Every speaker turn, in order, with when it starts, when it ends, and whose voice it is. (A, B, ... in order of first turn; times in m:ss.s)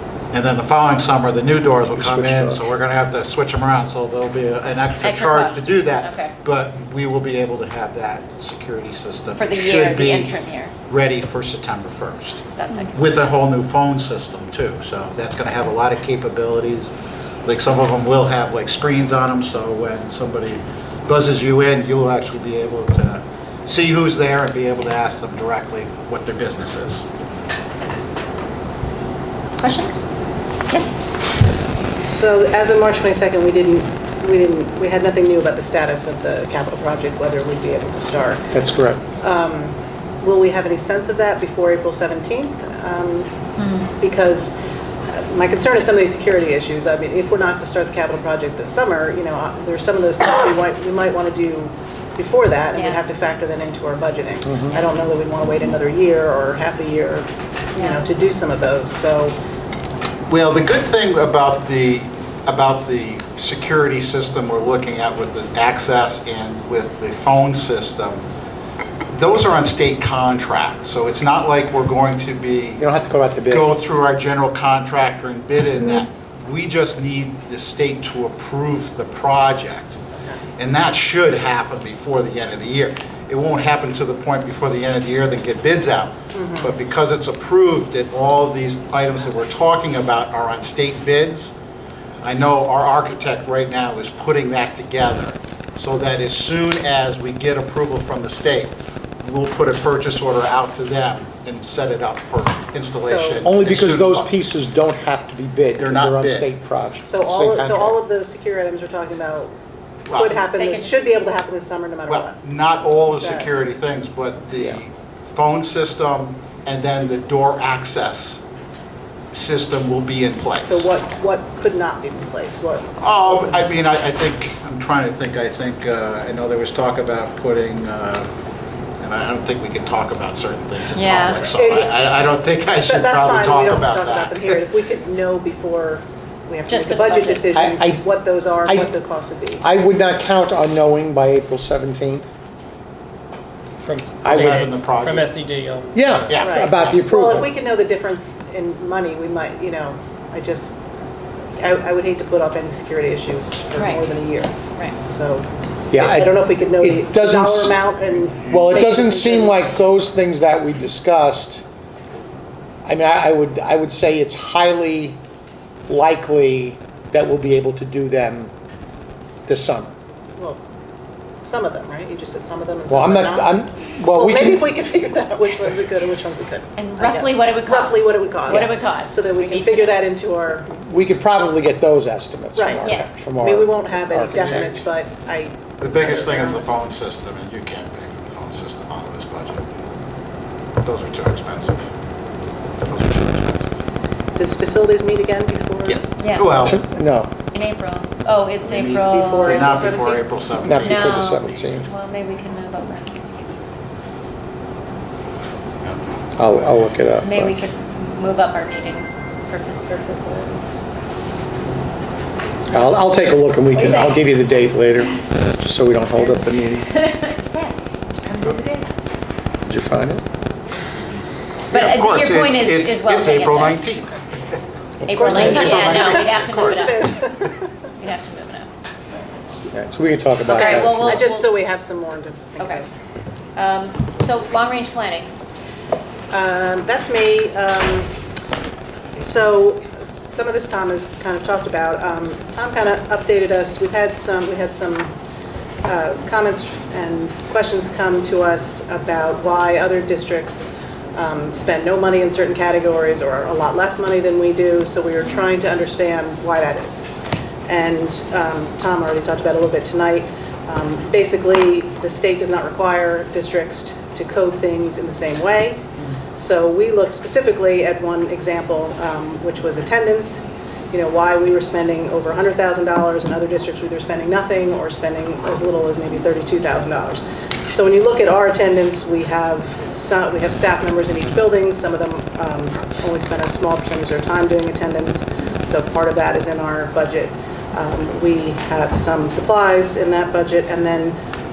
0:00.3-0:10.3 A
0:02.0-0:02.7 B
0:05.0-0:06.3 C
0:09.3-0:10.7 C
0:10.9-0:16.9 A
0:12.6-0:13.0 C
0:17.4-0:27.0 A
0:29.6-0:30.0 C
0:30.7-0:31.0 C
0:32.0-0:38.5 D
0:38.5-0:39.0 B
0:39.2-0:43.3 D
0:43.6-0:43.9 C
0:43.9-0:44.6 D
0:45.1-0:59.4 D
0:52.7-0:53.0 C
0:54.4-0:54.8 B
0:57.7-0:58.0 C
1:00.3-1:08.2 A
1:09.1-1:12.8 A
1:12.8-1:13.7 B
1:13.5-1:20.0 A
1:20.6-1:31.5 A
1:26.3-1:26.7 D
1:32.2-1:44.3 A
1:43.0-1:43.5 D
1:43.4-1:48.0 B
1:45.8-1:46.5 A
1:47.0-1:49.5 D
1:50.1-1:50.4 A
1:50.1-1:52.4 D
1:50.2-1:51.0 C
1:52.1-1:58.4 A
1:52.9-1:53.5 D
1:59.3-2:00.9 A
2:00.6-2:03.7 D
2:03.0-2:08.3 A
2:09.0-2:14.6 A
2:10.9-2:11.4 C
2:11.4-2:12.0 D
2:12.8-2:19.6 D
2:16.7-2:17.5 C
2:17.5-2:18.1 B
2:18.6-2:18.9 B
2:19.6-2:22.3 B
2:23.8-2:26.1 E
2:24.2-2:24.6 B
2:24.2-2:25.3 A
2:25.9-2:27.5 B
2:26.3-2:27.0 A
2:26.4-2:30.8 D
2:31.6-2:39.6 D
2:33.8-2:34.0 C
2:35.9-2:41.6 B
2:42.8-2:45.2 B
2:45.9-2:48.5 B
2:49.5-2:49.9 B
2:51.4-2:53.6 D
2:52.9-2:54.7 B
2:54.1-3:00.7 D
2:56.8-3:00.1 C
3:00.7-3:04.8 B
3:02.6-3:06.8 D
3:02.8-3:03.1 C
3:05.8-3:09.6 A
3:10.8-3:11.9 A
3:12.8-3:13.8 A
3:14.4-3:16.1 D
3:15.9-3:16.8 A
3:16.2-3:16.6 C
3:16.6-3:17.3 B
3:17.5-3:19.7 C
3:18.6-3:21.4 A
3:19.0-3:20.2 D
3:20.6-3:21.9 B
3:20.8-3:23.6 C
3:26.4-3:27.5 B
3:27.2-3:30.7 C
3:32.7-3:36.9 B
3:33.7-3:34.2 C
3:36.1-3:38.9 C
3:39.7-3:40.2 B
3:41.7-3:43.9 C
3:41.7-3:44.2 A
3:45.0-3:47.2 C
3:45.1-3:47.7 D
3:45.2-3:47.1 A
3:48.0-3:48.7 C
3:49.7-3:51.2 B
3:50.5-3:52.9 D
3:50.5-3:51.5 C
3:52.6-3:52.8 C
3:53.6-3:55.3 C
3:56.3-3:58.1 D
3:59.2-4:05.1 D
4:05.8-4:17.1 D
4:17.7-4:25.8 D
4:26.4-4:51.2 D